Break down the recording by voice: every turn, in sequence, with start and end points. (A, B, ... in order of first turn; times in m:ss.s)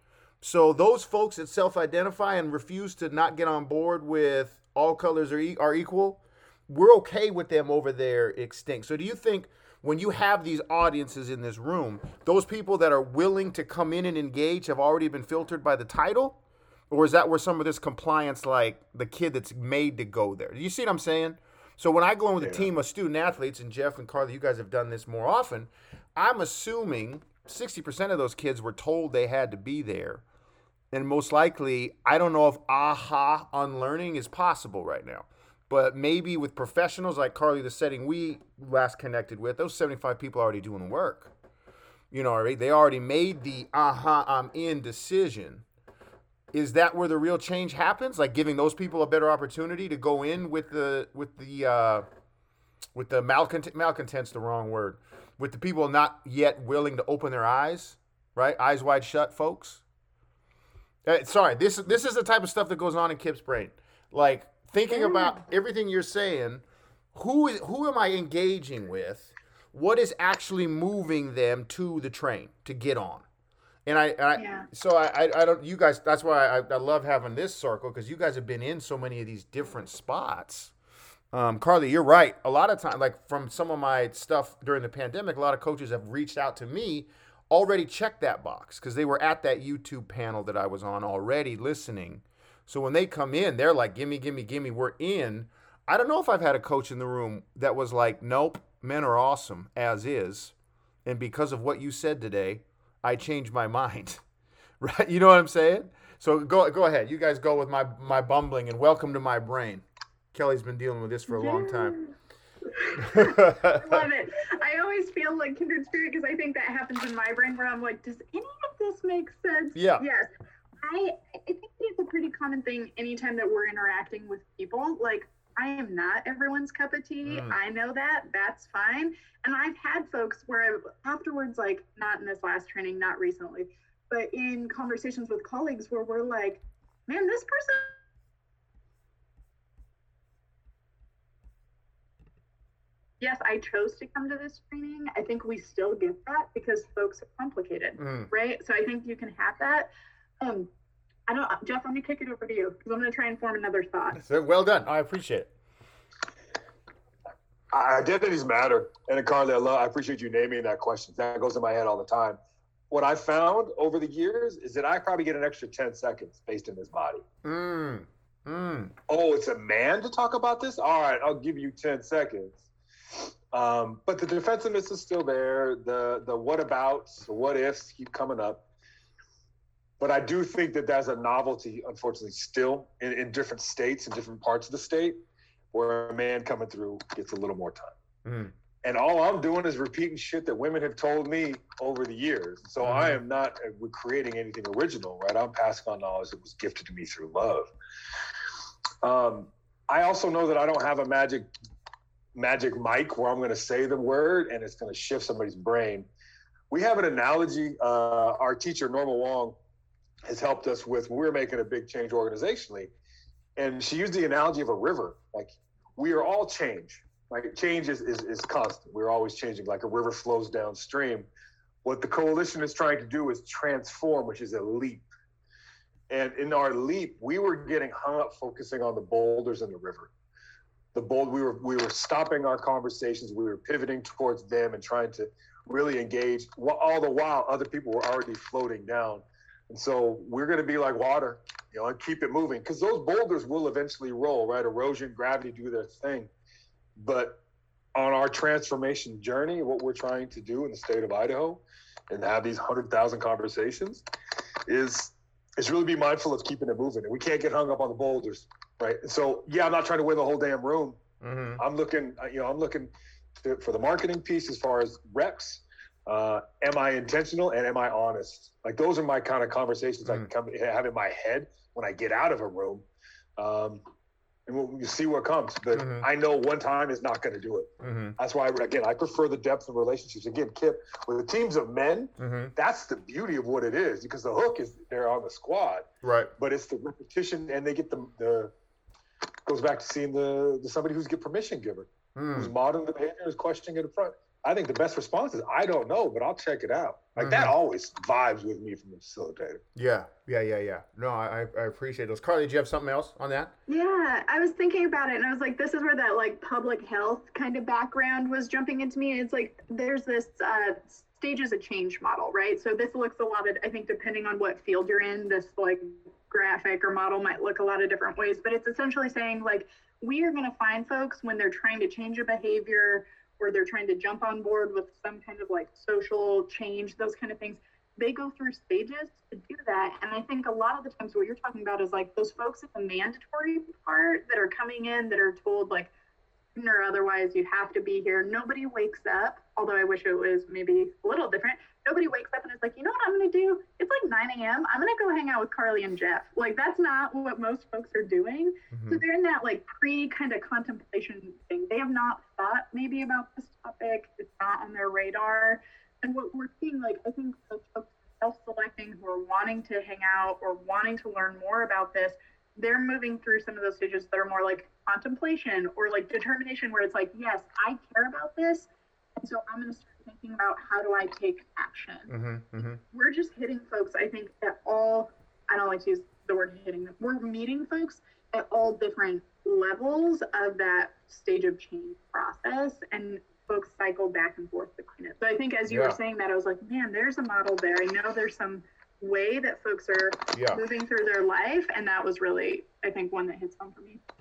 0:00.4-0:16.4 A
0:16.9-0:30.2 A
0:22.4-0:22.7 B
0:30.9-0:41.3 A
0:42.1-0:45.6 A
0:46.5-0:52.0 A
0:52.9-0:59.8 A
1:01.0-1:06.6 A
1:04.9-1:05.4 C
1:07.1-1:13.2 A
1:13.9-1:20.7 A
1:14.4-1:14.7 C
1:21.3-1:40.5 A
1:41.0-1:44.2 A
1:44.8-1:52.0 A
1:51.3-1:52.2 C
1:52.7-2:00.3 C
1:53.0-1:54.1 A
1:59.8-2:00.0 A
2:00.8-2:18.0 C
2:07.2-2:07.6 A
2:23.2-2:29.9 C
2:28.0-2:28.3 A
2:30.4-2:30.7 C
2:31.3-2:34.2 C
2:34.2-2:35.5 A
2:37.7-2:42.4 B
2:42.9-2:47.2 B
2:47.4-2:48.9 A
2:49.1-2:58.6 B
3:00.0-3:05.2 B
3:05.7-3:08.0 B
3:08.2-3:08.5 A
3:08.8-3:17.7 B
3:12.8-3:13.2 A
3:19.0-3:21.5 B
3:22.4-3:26.1 B
3:26.7-3:29.6 B
3:30.2-3:32.9 B
3:33.6-3:41.3 B
3:41.8-3:45.0 B
3:46.1-3:50.1 B
3:50.9-4:06.3 B
4:07.0-4:07.4 B
4:08.0-4:14.0 B
4:14.7-4:21.0 B
4:21.2-4:21.6 A
4:21.6-4:32.8 B
4:33.4-4:33.8 B
4:34.5-4:48.5 B
4:35.7-4:36.1 A
4:37.8-4:38.2 A
4:42.2-4:42.5 A
4:46.0-4:46.3 A
4:49.5-4:59.6 B
4:52.2-4:52.5 A
4:57.2-4:57.5 A
4:59.8-5:03.5 A
5:03.7-5:35.9 C
5:36.6-6:12.1 C
5:48.7-5:49.0 A
6:12.1-6:12.8 A
6:12.9-6:34.0 C
6:25.7-6:26.0 A
6:30.3-6:30.6 A